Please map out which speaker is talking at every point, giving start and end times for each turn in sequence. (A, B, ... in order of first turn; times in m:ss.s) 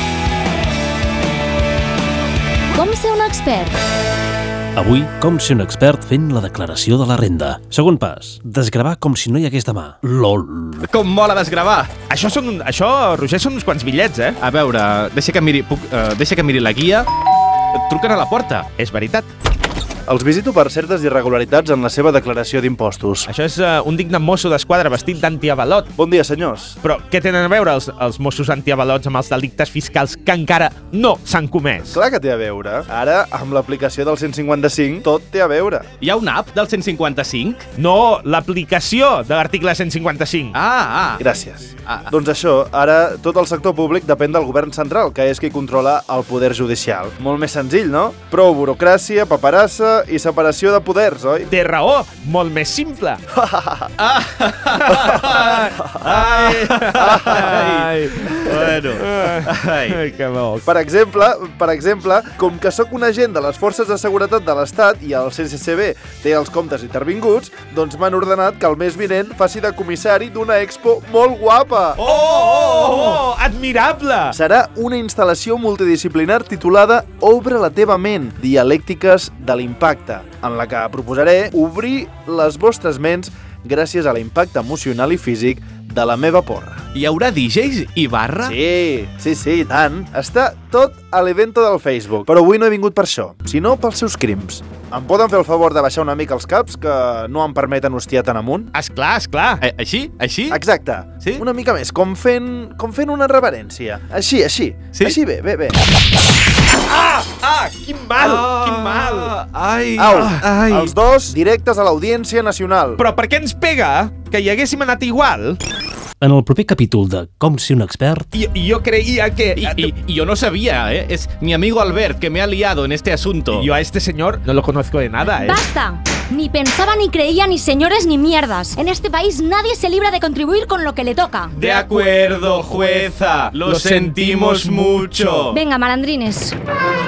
0:02.7-0:03.8 A
0:04.8-0:10.9 B
0:10.8-0:11.9 C
0:12.1-0:14.4 D
0:14.4-0:17.1 C
0:17.7-0:18.7 C
0:18.8-0:19.3 D
0:20.1-0:23.3 E
0:23.3-0:25.9 D
0:26.0-0:26.8 E
0:26.8-0:32.0 D
0:31.9-0:35.9 E
0:36.0-0:37.7 C
0:37.8-0:40.6 D
0:40.5-0:41.2 C
0:41.2-0:51.5 E
0:51.5-0:53.2 D
0:53.3-0:53.9 E
0:54.0-1:00.0 C
0:55.1-0:55.9 D
0:55.8-0:56.1 E
0:56.6-1:00.7 D
0:57.0-0:57.6 E
1:00.7-1:12.0 E
1:12.0-1:14.4 D
1:12.5-1:13.2 C
1:14.3-1:26.8 E
1:26.9-1:28.6 C
1:28.4-1:38.7 E
1:38.7-1:39.6 D
1:39.6-1:40.6 C
1:40.5-1:45.8 E
1:46.9-1:49.3 D
1:48.2-1:50.9 C
1:50.0-1:53.0 E
1:53.0-1:55.6 D
1:56.2-1:58.3 B
1:58.3-1:59.9 D
1:59.6-2:03.7 C
2:03.6-2:05.6 D
2:05.2-2:11.6 A
2:11.5-2:15.6 C
2:11.7-2:12.1 D
2:13.6-2:15.1 D
2:15.5-2:16.6 A